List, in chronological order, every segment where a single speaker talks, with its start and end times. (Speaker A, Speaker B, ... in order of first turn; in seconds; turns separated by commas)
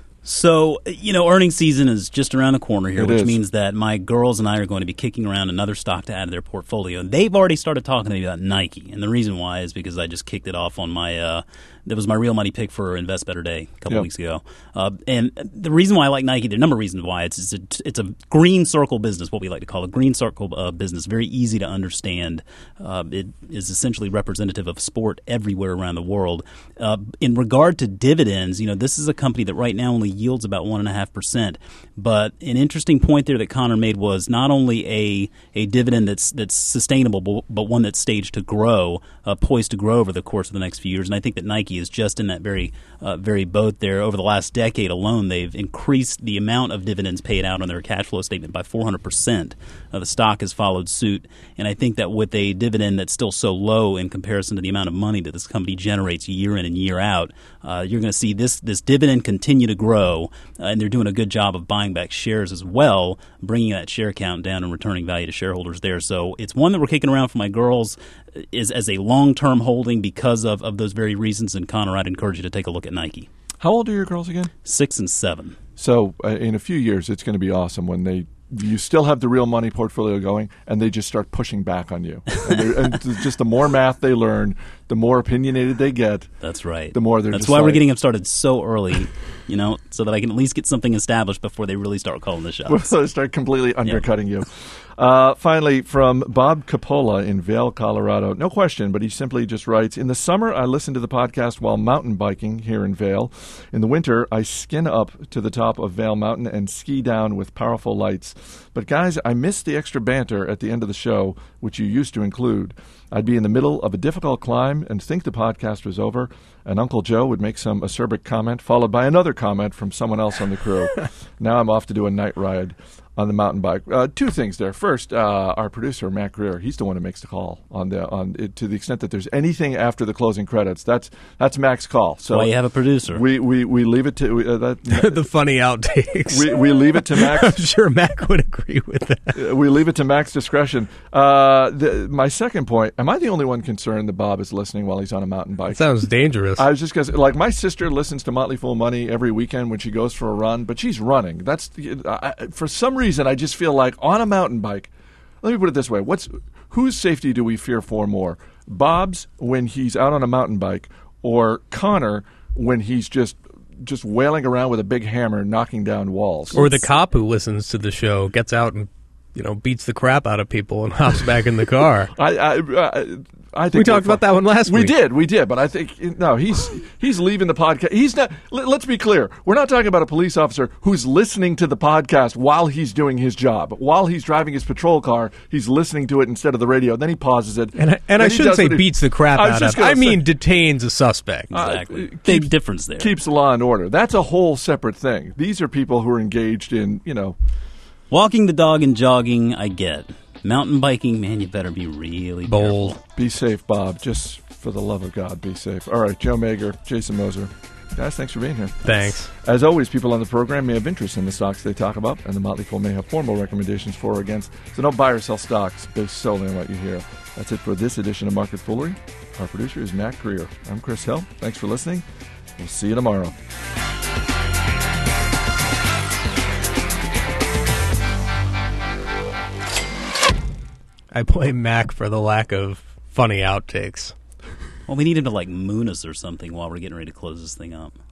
Speaker A: 0.2-73.3, Speaker B: 2.9-3.4, Speaker B: 73.6-74.5, Speaker A: 74.6-75.6, Speaker B: 75.8-86.3, Speaker A: 86.4-92.9, Speaker B: 86.9-87.8, Speaker B: 92.7-132.5, Speaker A: 132.3-133.2, Speaker B: 133.1-135.1, Speaker C: 134.9-139.4, Speaker B: 136.3-137.6, Speaker B: 139.3-145.8, Speaker C: 145.7-146.7, Speaker B: 146.6-154.9, Speaker B: 155.4-166.8, Speaker C: 166.5-172.1, Speaker B: 172.2-190.2, Speaker C: 173.7-174.9, Speaker C: 187.8-191.5, Speaker A: 191.5-193.1, Speaker B: 191.5-197.3, Speaker A: 198.1-203.0, Speaker C: 202.5-203.0, Speaker B: 203.1-222.0, Speaker C: 208.8-209.3, Speaker B: 222.6-223.3, Speaker C: 231.1-234.1, Speaker A: 234.9-237.9